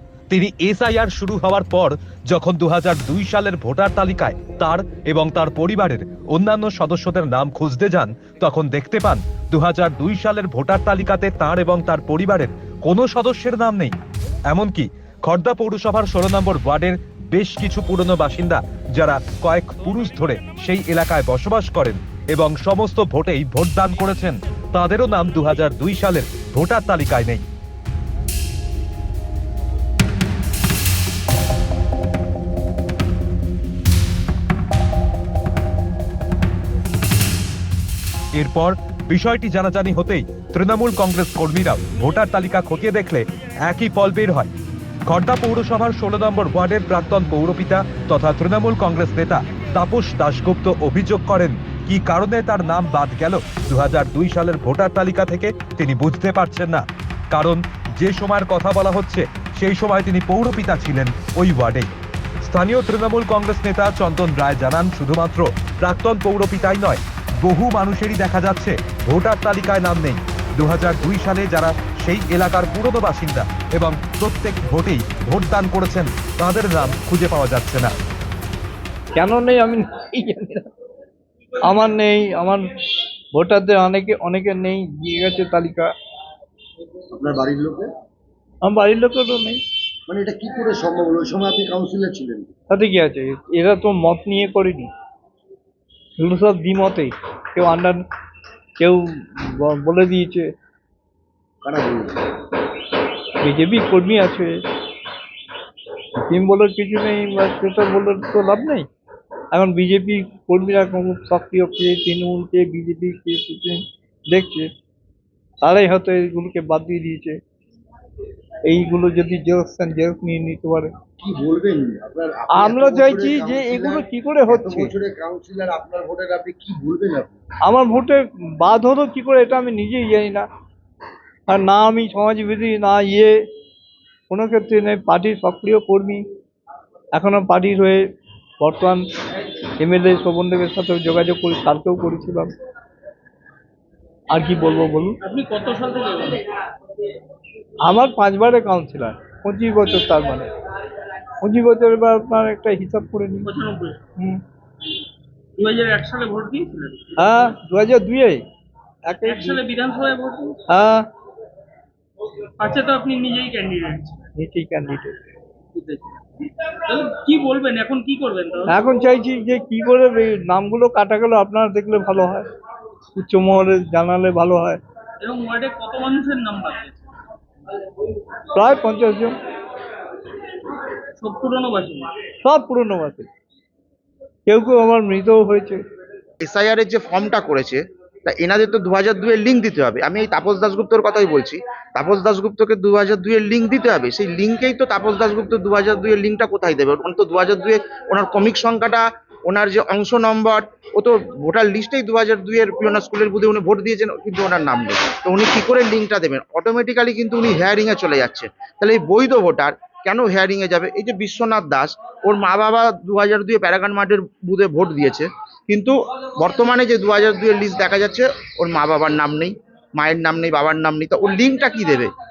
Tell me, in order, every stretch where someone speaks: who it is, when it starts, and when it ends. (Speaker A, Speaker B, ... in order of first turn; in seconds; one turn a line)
Speaker A: 0.3-13.9
Speaker A: 14.5-27.4
Speaker A: 38.4-44.5
Speaker A: 45.1-61.9
Speaker A: 62.4-77.9
Speaker B: 79.1-80.7
Speaker B: 81.6-82.7
Speaker B: 83.3-85.9
Speaker C: 87.1-87.9
Speaker B: 88.6-89.6
Speaker C: 90.1-92.5
Speaker B: 92.7-94.9
Speaker B: 96.2-98.0
Speaker B: 98.8-100.5
Speaker C: 101.6-102.2
Speaker B: 103.4-104.6
Speaker B: 106.3-108.8
Speaker B: 109.5-114.7
Speaker B: 115.6-117.4
Speaker B: 118.6-120.9
Speaker C: 121.2-127.4
Speaker B: 122.5-124.9
Speaker B: 127.6-130.4
Speaker B: 131.5-133.3
Speaker B: 134.3-136.2
Speaker B: 137.2-138.0
Speaker B: 138.6-139.0
Speaker B: 139.8-142.5
Speaker B: 144.3-145.2
Speaker D: 145.2-146.4
Speaker B: 147.9-150.5
Speaker B: 151.4-153.5
Speaker D: 153.4-154.0
Speaker D: 155.6-157.2
Speaker B: 157.2-158.4
Speaker B: 159.1-159.6
Speaker D: 159.2-160.6
Speaker B: 160.7-161.0
Speaker D: 162.6-164.2
Speaker B: 164.4-165.1
Speaker D: 165.7-168.8
Speaker B: 168.7-172.4
Speaker B: 173.1-174.8
Speaker D: 175.2-177.0
Speaker B: 178.5-179.3
Speaker D: 181.2-182.2
Speaker B: 182.4-183.3
Speaker B: 184.5-185.8
Speaker E: 186.4-222.1